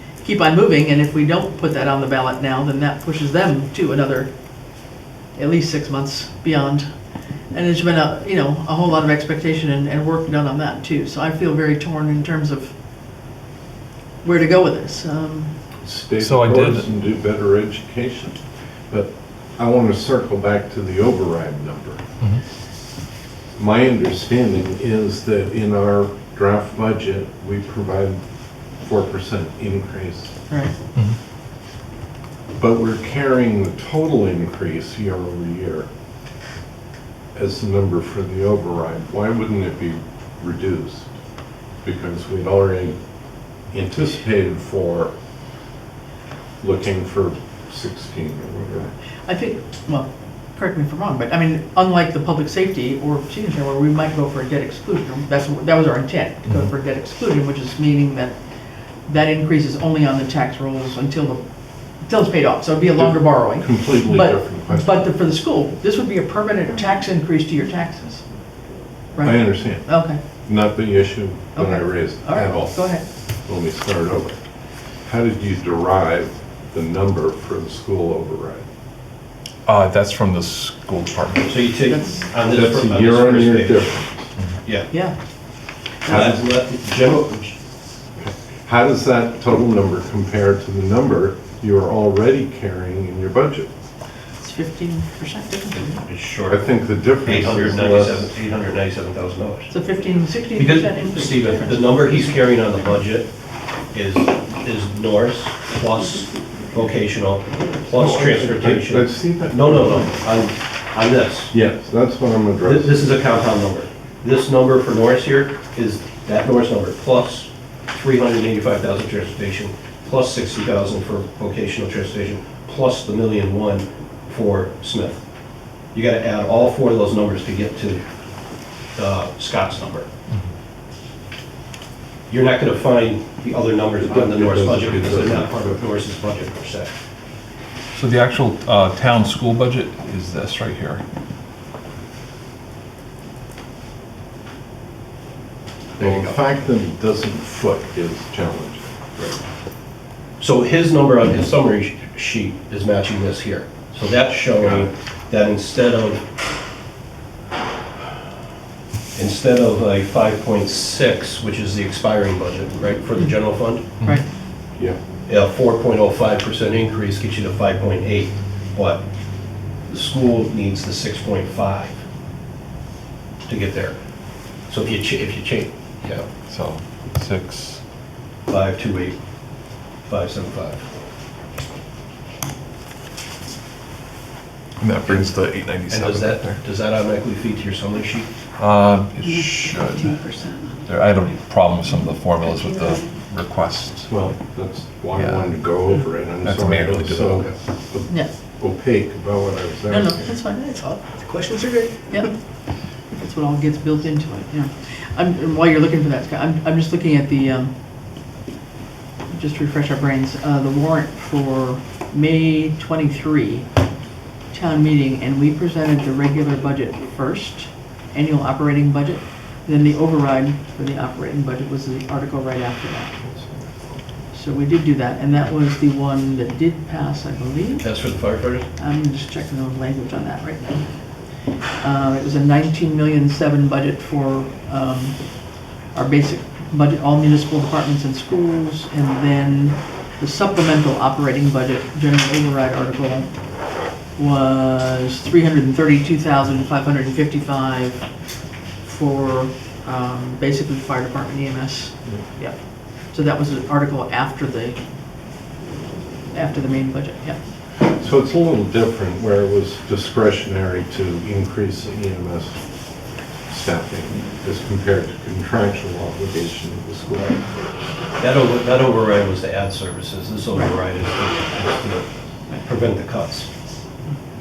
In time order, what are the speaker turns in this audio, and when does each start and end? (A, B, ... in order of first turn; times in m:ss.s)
0:00.2-0:06.9 A
0:07.5-0:12.7 A
0:14.2-0:15.5 A
0:15.8-0:18.4 B
0:16.2-0:16.9 C
0:18.9-0:22.0 B
0:23.6-0:28.2 B
0:28.8-0:30.3 B
0:32.6-0:35.9 B
0:37.3-0:41.1 B
0:41.8-0:43.0 B
0:43.7-0:45.1 B
0:46.6-0:48.9 B
0:49.2-0:58.4 A
0:59.0-1:01.4 A
1:02.0-1:08.2 A
1:03.0-1:05.1 B
1:09.1-1:10.2 A
1:09.2-1:12.8 B
1:11.6-1:13.0 A
1:13.4-1:14.4 B
1:15.0-1:18.6 B
1:19.6-1:21.6 C
1:21.4-1:23.9 D
1:21.8-1:22.3 A
1:22.4-1:24.3 B
1:24.6-1:24.9 D
1:24.9-1:25.2 A
1:26.0-1:26.4 A
1:26.0-1:27.5 D
1:26.1-1:26.4 B
1:28.2-1:33.7 B
1:34.4-1:36.0 A
1:35.8-1:39.8 D
1:36.5-1:38.3 B
1:39.7-1:42.4 A
1:40.6-1:43.3 D
1:43.9-1:51.6 D
1:47.9-1:50.1 B
1:51.5-1:53.0 B
1:52.6-2:05.2 D
2:05.9-2:08.0 D
2:08.9-2:10.1 D
2:12.3-2:16.9 D
2:14.0-2:15.8 B
2:17.9-2:21.0 C
2:26.0-2:26.4 D
2:26.0-2:29.4 B
2:30.4-2:36.2 D
2:34.6-2:34.9 B
2:39.1-2:43.9 D
2:45.3-2:49.1 D
2:49.9-2:52.0 D
2:53.4-2:54.0 D
2:54.7-2:56.3 D
2:56.5-2:57.8 C
2:58.5-2:59.2 D
3:00.0-3:00.8 D
3:04.8-3:06.6 C
3:05.0-3:05.4 D
3:05.9-3:08.3 D
3:08.6-3:14.2 C
3:09.2-3:10.8 E
3:12.4-3:13.1 E
3:14.1-3:20.3 B
3:15.1-3:15.6 C
3:16.4-3:17.5 C
3:19.9-3:20.9 A
3:20.8-3:22.1 E
3:23.1-3:27.7 A
3:29.3-3:33.7 A
3:34.5-3:43.2 A
3:43.3-3:43.6 B
3:44.3-3:47.9 A
3:47.8-3:48.6 D
3:48.8-3:50.8 A
3:51.8-3:55.2 A
3:55.9-4:03.3 A
4:04.1-4:08.1 A
4:08.8-4:14.8 A
4:16.3-4:17.4 A
4:17.8-4:22.6 B
4:23.5-4:27.4 B
4:28.2-4:32.1 D
4:32.6-4:33.5 D